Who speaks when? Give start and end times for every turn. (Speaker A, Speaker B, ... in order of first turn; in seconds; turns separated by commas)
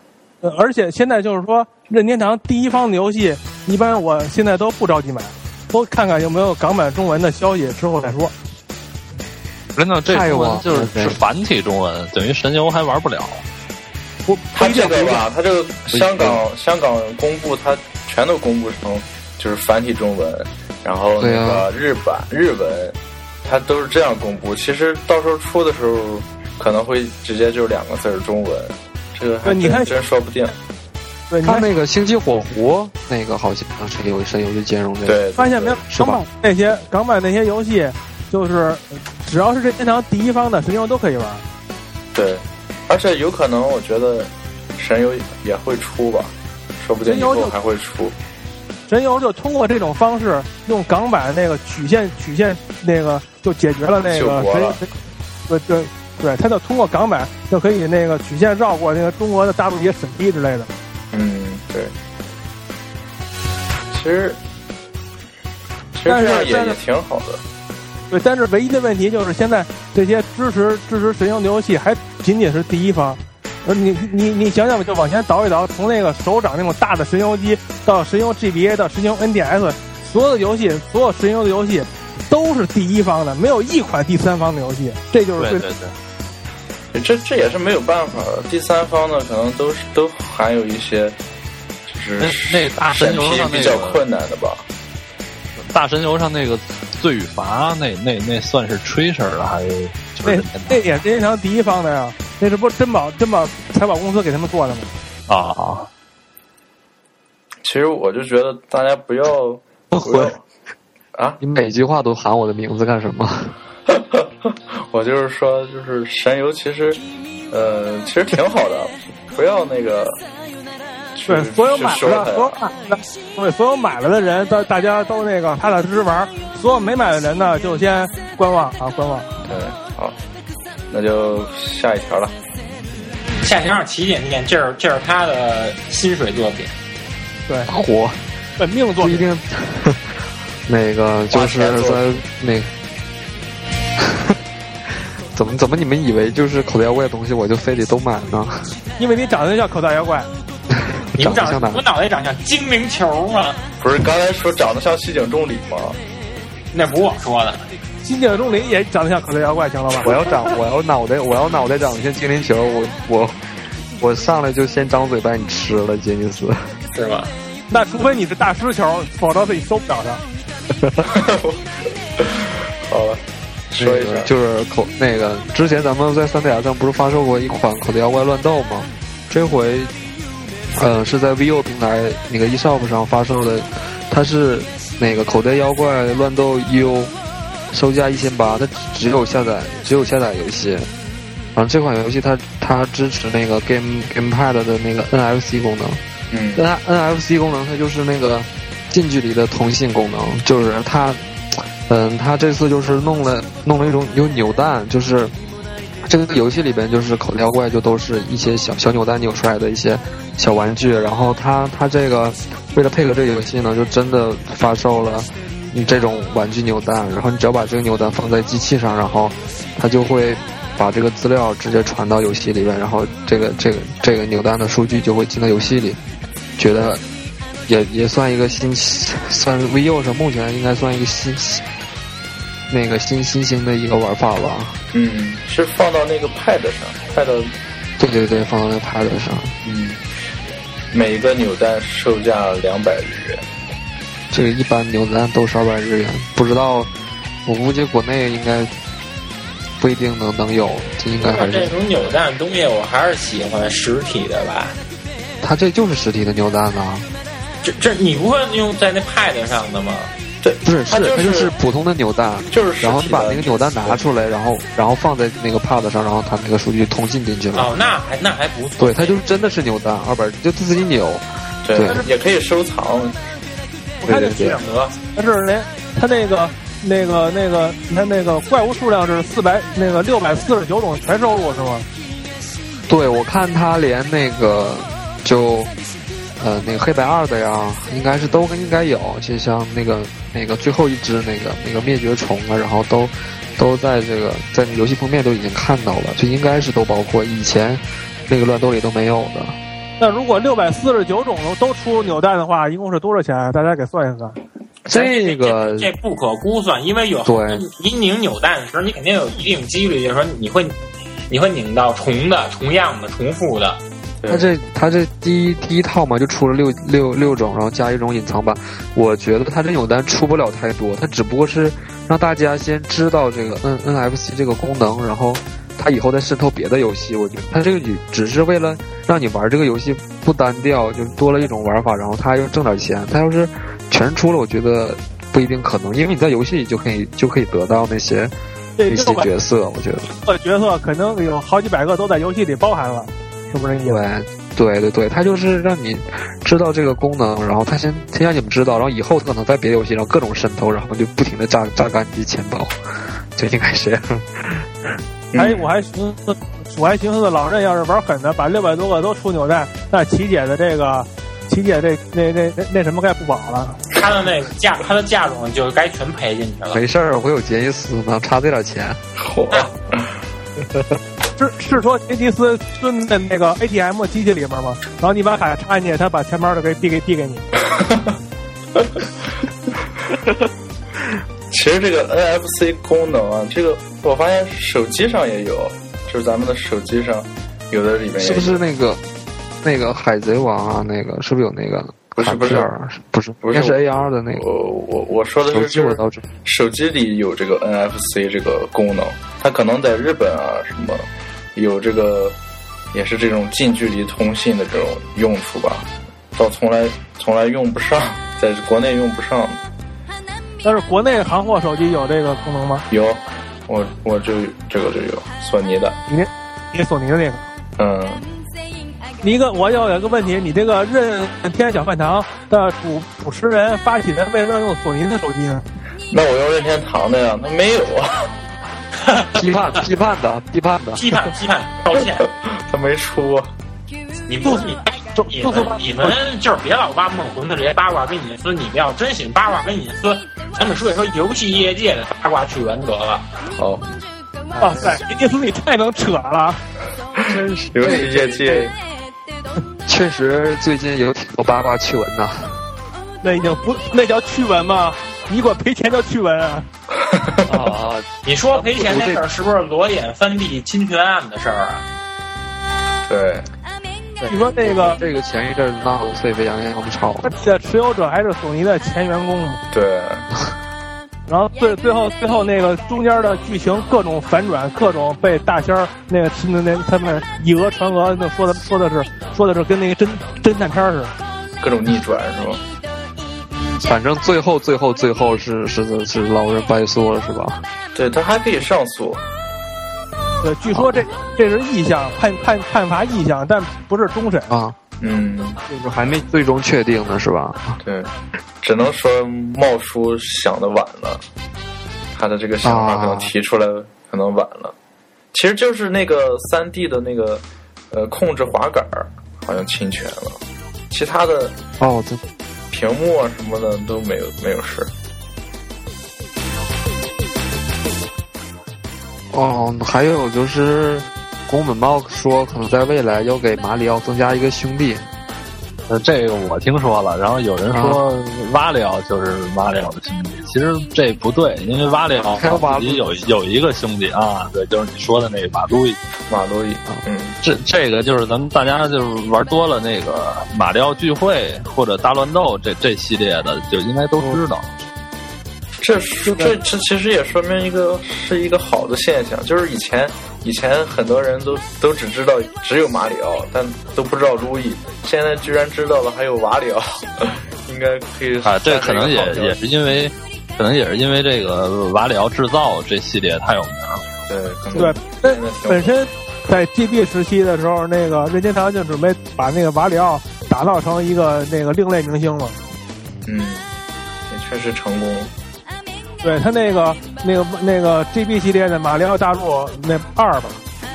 Speaker A: 0.4-8.3, Speaker B: 9.8-13.4, Speaker C: 10.1-11.2, Speaker A: 14.3-15.2, Speaker D: 14.5-30.6, Speaker C: 15.9-16.4, Speaker C: 21.2-21.7, Speaker A: 29.4-29.9, Speaker A: 31.3-31.6, Speaker C: 31.4-35.2, Speaker D: 35.0-35.8, Speaker A: 35.4-41.4, Speaker C: 35.9-36.2, Speaker D: 42.1-48.1, Speaker A: 47.0-47.5, Speaker A: 48.9-54.9, Speaker D: 54.0-54.8, Speaker A: 55.5-60.7, Speaker D: 61.1-61.9, Speaker D: 63.9-64.4, Speaker D: 65.9-67.4, Speaker A: 66.0-66.8, Speaker A: 68.1-85.7, Speaker B: 85.4-85.9, Speaker D: 86.9-91.2, Speaker D: 91.9-94.6, Speaker B: 92.2-94.0, Speaker B: 95.6-100.8, Speaker A: 100.2-104.9, Speaker B: 105.3-105.9, Speaker D: 107.6-110.4, Speaker C: 109.9-110.3, Speaker D: 111.1-111.4, Speaker C: 111.4-113.5, Speaker D: 113.9-120.2, Speaker D: 121.1-122.6, Speaker A: 121.3-129.4, Speaker D: 129.4-130.2, Speaker D: 130.9-132.3, Speaker E: 133.4-136.7, Speaker C: 137.7-138.2, Speaker A: 138.6-139.2, Speaker C: 139.0-140.0, Speaker C: 140.7-142.7, Speaker D: 141.3-142.2, Speaker C: 144.0-144.3, Speaker C: 145.3-148.7, Speaker A: 149.0-150.3, Speaker C: 151.1-151.8, Speaker E: 151.2-153.6, Speaker D: 153.8-156.0, Speaker E: 156.7-157.7, Speaker A: 158.0-160.3, Speaker C: 160.0-163.4, Speaker C: 164.0-166.7, Speaker E: 166.9-167.3, Speaker A: 167.7-170.2, Speaker C: 170.8-171.0, Speaker D: 171.0-171.6, Speaker D: 172.2-174.3, Speaker C: 173.8-179.9, Speaker C: 180.7-187.1, Speaker C: 187.7-190.9, Speaker C: 191.5-196.0, Speaker D: 196.3-196.7, Speaker C: 196.6-205.3, Speaker C: 206.0-226.0, Speaker C: 226.6-227.0, Speaker C: 227.7-231.6, Speaker C: 232.7-234.8, Speaker D: 234.9-237.5, Speaker C: 238.0-239.5, Speaker D: 239.6-240.0, Speaker D: 240.9-243.4, Speaker C: 244.3-246.9, Speaker C: 247.4-248.7, Speaker C: 249.8-251.7, Speaker E: 251.2-254.8, Speaker C: 255.4-257.1, Speaker E: 257.6-260.1, Speaker D: 260.4-261.5, Speaker C: 260.6-267.7, Speaker D: 262.5-264.0, Speaker E: 267.5-269.2, Speaker C: 268.8-272.1, Speaker D: 271.6-273.2, Speaker C: 274.0-274.6, Speaker A: 274.0-274.3, Speaker E: 274.1-274.9, Speaker A: 275.1-281.9, Speaker C: 282.9-285.7, Speaker C: 286.4-299.6, Speaker A: 300.0-304.4, Speaker E: 304.9-310.8, Speaker C: 304.9-305.9, Speaker C: 307.2-307.6, Speaker E: 311.3-313.8, Speaker D: 314.2-314.5, Speaker C: 314.3-338.3, Speaker A: 338.8-339.3, Speaker C: 338.9-340.1, Speaker A: 340.1-344.0, Speaker C: 343.8-352.8, Speaker C: 353.3-355.0, Speaker D: 355.3-355.7, Speaker A: 355.4-363.8, Speaker E: 363.9-366.8, Speaker C: 366.7-369.0, Speaker D: 369.2-370.1, Speaker A: 371.4-377.4, Speaker D: 377.7-378.1, Speaker D: 378.8-379.0, Speaker D: 381.5-388.6, Speaker C: 388.2-389.0, Speaker C: 389.6-394.5, Speaker D: 392.1-392.7, Speaker D: 393.4-393.8, Speaker D: 394.3-402.4, Speaker C: 395.5-396.2, Speaker D: 402.9-409.6, Speaker A: 410.6-412.8, Speaker D: 412.9-416.0, Speaker A: 416.1-417.4, Speaker D: 417.8-418.2, Speaker A: 419.2-425.6, Speaker D: 426.1-428.3, Speaker E: 429.0-429.4, Speaker C: 429.3-431.2, Speaker E: 430.9-432.3, Speaker D: 431.9-433.5, Speaker E: 434.3-443.3, Speaker A: 434.4-436.1, Speaker D: 443.5-443.9, Speaker C: 444.6-445.0, Speaker A: 444.6-446.6, Speaker D: 447.2-448.7, Speaker C: 447.2-448.7, Speaker C: 449.9-452.6, Speaker A: 453.2-456.6, Speaker D: 456.9-457.7, Speaker C: 457.5-459.2, Speaker E: 458.2-461.9, Speaker D: 463.1-463.5, Speaker C: 464.2-467.3, Speaker A: 464.2-465.0, Speaker A: 467.2-469.6, Speaker D: 469.7-470.3, Speaker A: 471.3-481.1, Speaker D: 481.6-482.6, Speaker C: 483.8-487.6, Speaker D: 487.9-489.2, Speaker A: 490.4-494.5, Speaker C: 490.7-491.0, Speaker C: 494.5-494.8, Speaker D: 495.0-495.6, Speaker C: 495.7-497.8, Speaker D: 497.8-501.2, Speaker D: 502.1-504.7, Speaker C: 502.6-503.3, Speaker D: 505.3-511.6, Speaker C: 511.8-512.2, Speaker D: 512.7-514.9, Speaker C: 519.3-525.1, Speaker B: 525.9-536.0, Speaker C: 527.7-528.0, Speaker C: 532.3-533.3, Speaker D: 536.3-537.4, Speaker B: 537.4-544.8, Speaker D: 545.8-559.6, Speaker A: 546.2-546.5, Speaker B: 558.4-564.0, Speaker D: 564.3-565.9, Speaker A: 564.7-572.6, Speaker D: 573.2-573.7, Speaker D: 574.3-575.3, Speaker A: 576.2-580.6